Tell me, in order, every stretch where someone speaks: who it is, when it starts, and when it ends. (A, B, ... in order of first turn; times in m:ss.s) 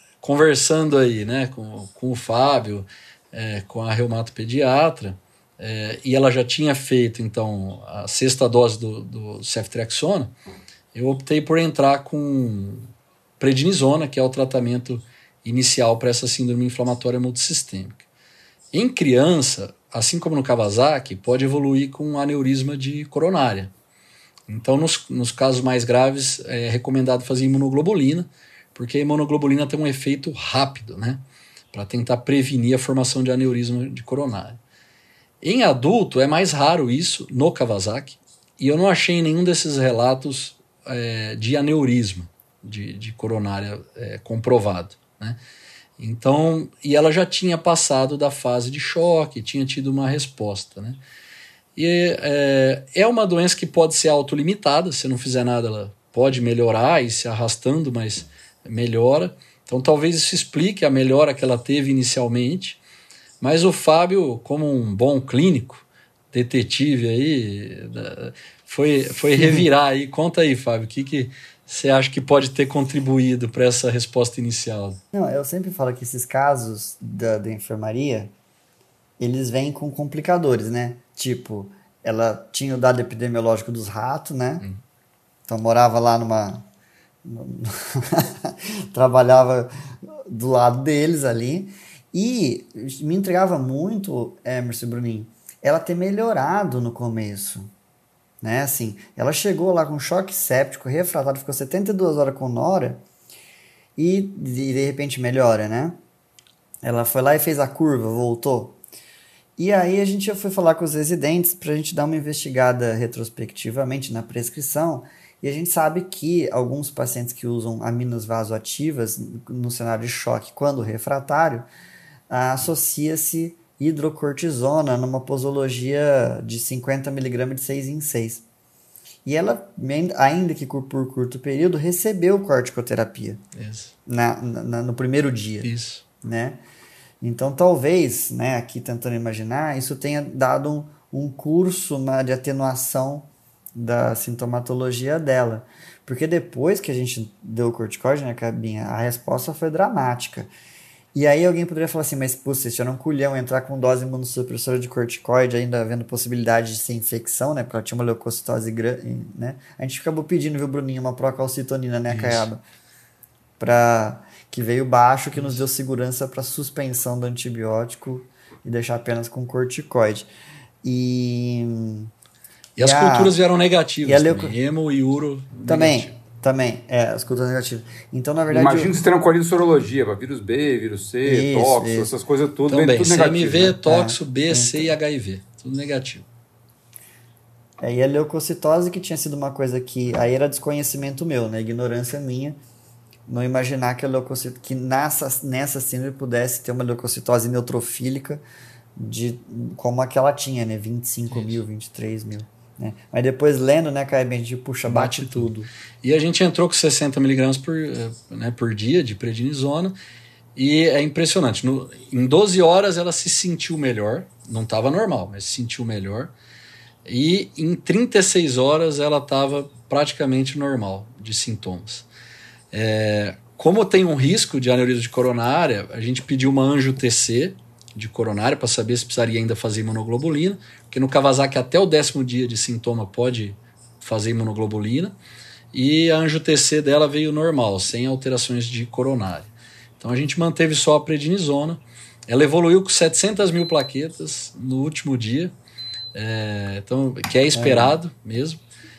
0:00.2-0:10.3 A
0:11.0-0:18.0 A
0:18.7-0:23.7 A
0:24.5-0:31.2 A
0:31.7-0:34.6 A
0:35.4-0:45.4 A
0:46.0-0:51.0 A
0:51.8-1:02.8 A
1:03.4-1:15.0 A
1:15.1-1:18.3 B
1:19.2-1:24.6 B
1:25.5-1:26.7 B
1:27.2-1:37.7 B
1:38.4-1:43.0 B
1:44.0-1:46.0 B
1:46.8-1:48.8 B
1:49.6-2:01.7 B
2:02.3-2:08.4 B
2:09.2-2:13.4 B
2:13.6-2:13.9 A
2:14.1-2:15.7 B
2:15.6-2:16.0 A
2:16.2-2:16.6 B
2:17.2-2:30.5 B
2:31.1-2:42.6 B
2:42.1-2:42.5 A
2:43.6-2:50.3 B
2:50.8-2:52.1 B
2:52.8-2:56.1 A
2:52.8-2:53.4 B
2:54.0-2:54.6 B
2:55.7-2:59.0 B
2:58.5-3:03.8 C
3:01.3-3:02.1 B
3:02.7-3:06.3 A
3:03.8-3:05.0 B
3:07.8-3:12.6 B
3:13.3-3:18.4 B
3:19.0-3:25.7 B
3:21.3-3:21.6 A
3:24.9-3:25.5 A
3:26.0-3:30.0 A
3:30.6-3:36.3 A
3:37.0-3:42.1 A
3:42.7-3:55.2 A
3:55.7-4:05.5 A
4:06.2-4:08.6 A
4:07.5-4:08.0 B